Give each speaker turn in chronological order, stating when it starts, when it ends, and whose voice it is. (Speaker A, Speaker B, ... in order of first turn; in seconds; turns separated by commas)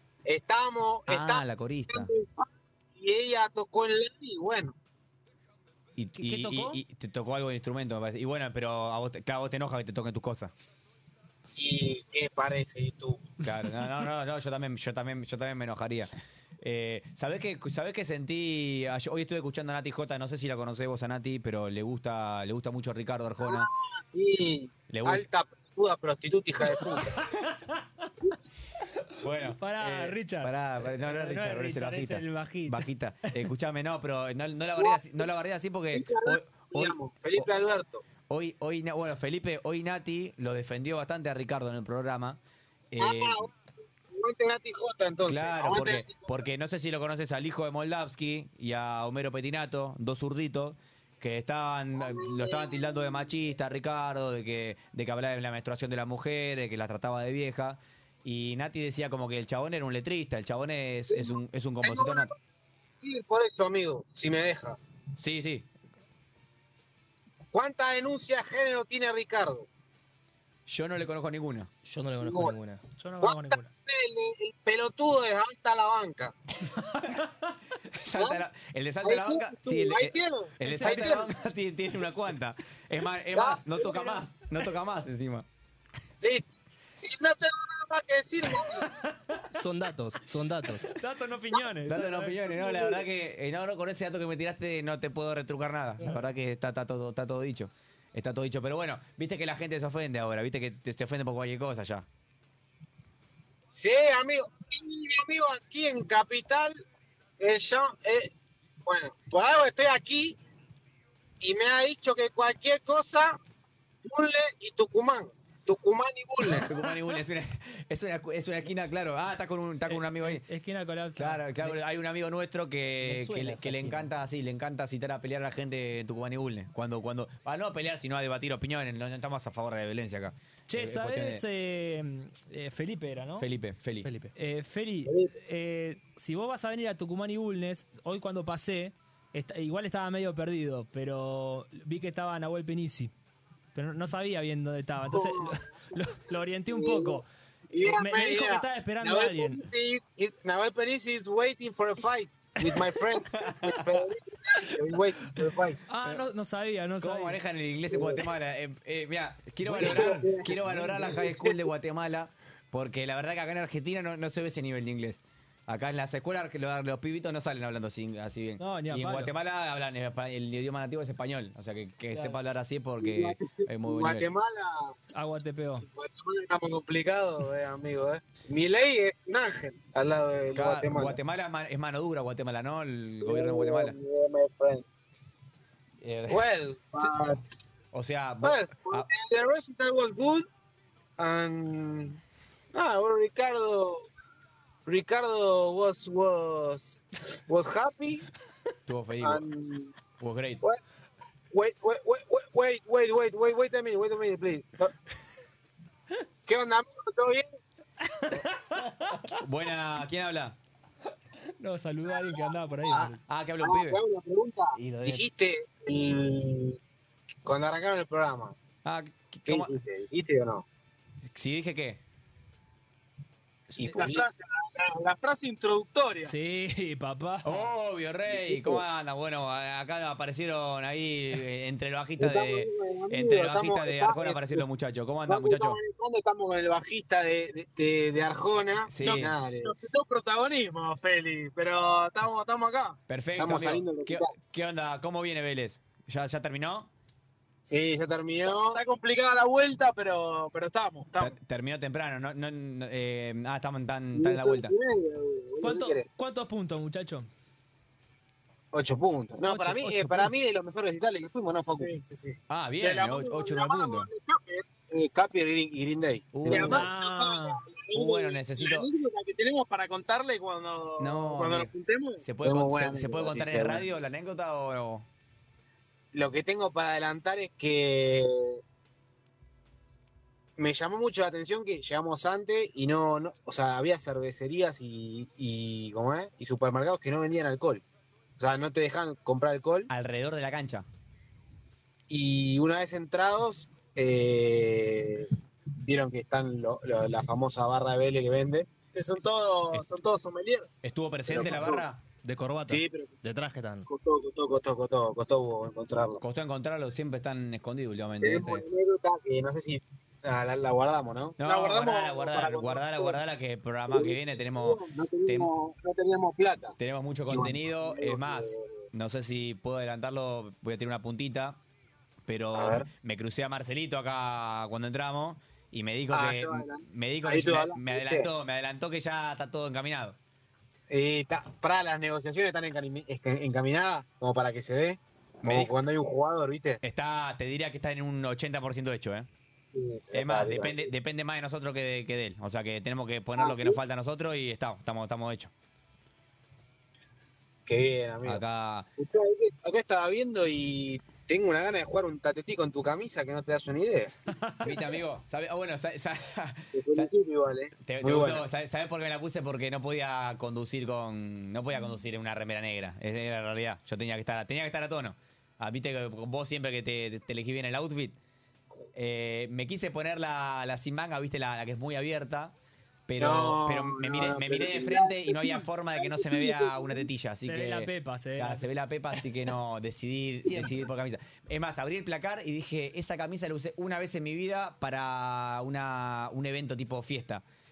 Speaker A: 0.2-4.7, Speaker B: 1.1-2.1, Speaker B: 6.0-10.5, Speaker C: 6.2-6.8, Speaker A: 11.6-13.3, Speaker B: 13.4-23.7, Speaker A: 23.4-27.2, Speaker B: 24.9-25.2, Speaker C: 26.9-28.1, Speaker B: 29.2-37.5, Speaker C: 29.4-33.4, Speaker A: 34.8-35.2, Speaker A: 35.9-38.0, Speaker B: 38.3-42.4, Speaker B: 42.9-43.5, Speaker A: 43.0-43.5, Speaker A: 44.1-46.4, Speaker B: 45.3-62.3, Speaker A: 52.0-53.2, Speaker A: 61.1-62.3, Speaker A: 63.0-64.8, Speaker B: 65.2-65.7, Speaker A: 67.5-69.7, Speaker B: 70.7-71.7, Speaker D: 71.8-72.8, Speaker A: 72.2-72.5, Speaker C: 73.0-73.7, Speaker A: 73.2-76.3, Speaker C: 76.7-77.5, Speaker B: 77.9-85.5, Speaker A: 78.1-78.4, Speaker A: 79.0-81.3, Speaker C: 80.6-81.3, Speaker A: 83.3-83.6, Speaker C: 83.8-84.3, Speaker A: 86.2-86.5, Speaker A: 87.0-88.9, Speaker C: 88.8-89.5, Speaker D: 89.5-90.9, Speaker C: 90.9-92.9, Speaker B: 91.8-102.0, Speaker A: 103.7-106.8, Speaker A: 107.4-108.3, Speaker A: 108.8-110.4, Speaker A: 111.4-113.4, Speaker A: 114.0-116.7, Speaker B: 116.5-120.4, Speaker C: 119.9-121.8, Speaker B: 121.1-131.4, Speaker D: 123.0-124.1, Speaker C: 130.7-133.5, Speaker B: 133.4-134.1, Speaker D: 134.0-134.3, Speaker C: 134.3-143.1, Speaker C: 143.7-147.3, Speaker A: 145.0-145.7, Speaker A: 146.7-155.8, Speaker C: 147.8-149.6, Speaker B: 153.3-154.0, Speaker C: 155.9-157.4, Speaker B: 157.0-174.3, Speaker A: 157.9-158.2, Speaker A: 159.7-161.6, Speaker C: 168.6-169.3, Speaker C: 172.1-172.4, Speaker A: 173.0-175.0, Speaker C: 175.1-175.8, Speaker A: 175.9-181.2, Speaker B: 180.5-183.9, Speaker A: 183.2-184.8, Speaker B: 186.0-186.4, Speaker A: 186.3-187.4, Speaker B: 187.9-189.1, Speaker A: 188.4-190.5, Speaker A: 191.2-192.2, Speaker A: 192.7-194.1, Speaker A: 194.8-198.2, Speaker B: 198.9-199.4, Speaker A: 199.2-199.9, Speaker B: 200.2-200.6, Speaker A: 201.5-204.9, Speaker A: 206.4-207.4, Speaker C: 208.0-209.3, Speaker B: 209.3-210.6, Speaker C: 211.6-213.2, Speaker A: 212.1-216.8, Speaker B: 213.2-214.0, Speaker D: 214.7-215.2, Speaker A: 217.4-218.6, Speaker B: 218.8-219.7, Speaker A: 219.5-220.6, Speaker B: 221.3-222.0, Speaker A: 223.9-224.3, Speaker E: 224.0-226.3, Speaker C: 226.2-227.7, Speaker B: 227.4-235.8, Speaker A: 228.3-228.8, Speaker A: 232.2-234.6, Speaker A: 235.2-239.7, Speaker B: 238.9-239.3, Speaker E: 239.0-243.0, Speaker B: 243.1-246.9, Speaker A: 243.4-244.3, Speaker A: 247.6-248.8, Speaker E: 248.5-251.3, Speaker B: 251.2-254.7, Speaker A: 254.1-256.1, Speaker C: 255.6-257.3, Speaker A: 258.7-261.9, Speaker C: 259.4-260.3, Speaker E: 261.7-264.6, Speaker B: 262.5-264.1, Speaker A: 264.3-266.9, Speaker B: 266.3-266.9, Speaker E: 266.4-272.2, Speaker C: 266.5-267.6, Speaker B: 267.9-268.9, Speaker B: 271.0-271.7, Speaker B: 272.2-275.1, Speaker A: 272.4-273.9, Speaker A: 276.1-278.6, Speaker A: 280.6-287.8, Speaker A: 288.4-289.9, Speaker B: 289.9-290.9, Speaker A: 292.1-295.3, Speaker A: 295.8-298.8, Speaker E: 298.9-300.7, Speaker B: 300.8-302.0, Speaker A: 301.3-301.8, Speaker D: 302.2-303.9, Speaker A: 302.7-303.1, Speaker A: 303.9-306.2, Speaker B: 306.2-308.6, Speaker A: 308.2-311.4, Speaker B: 311.4-315.5, Speaker E: 311.4-312.8, Speaker A: 312.5-313.2, Speaker A: 313.9-316.8, Speaker B: 316.8-321.6, Speaker A: 317.3-318.8, Speaker B: 322.2-330.2, Speaker A: 322.5-322.9, Speaker A: 326.1-328.3, Speaker A: 330.9-336.8, Speaker B: 335.4-335.7, Speaker B: 336.8-339.3, Speaker A: 339.7-340.9, Speaker B: 340.1-345.5, Speaker A: 343.4-343.8, Speaker A: 347.6-348.4, Speaker B: 348.2-348.9, Speaker A: 349.0-354.1, Speaker B: 354.6-357.1, Speaker A: 356.7-358.5, Speaker B: 357.8-368.2, Speaker B: 368.9-372.5, Speaker B: 373.1-387.4, Speaker A: 373.2-377.1, Speaker C: 377.4-378.7, Speaker D: 380.5-380.8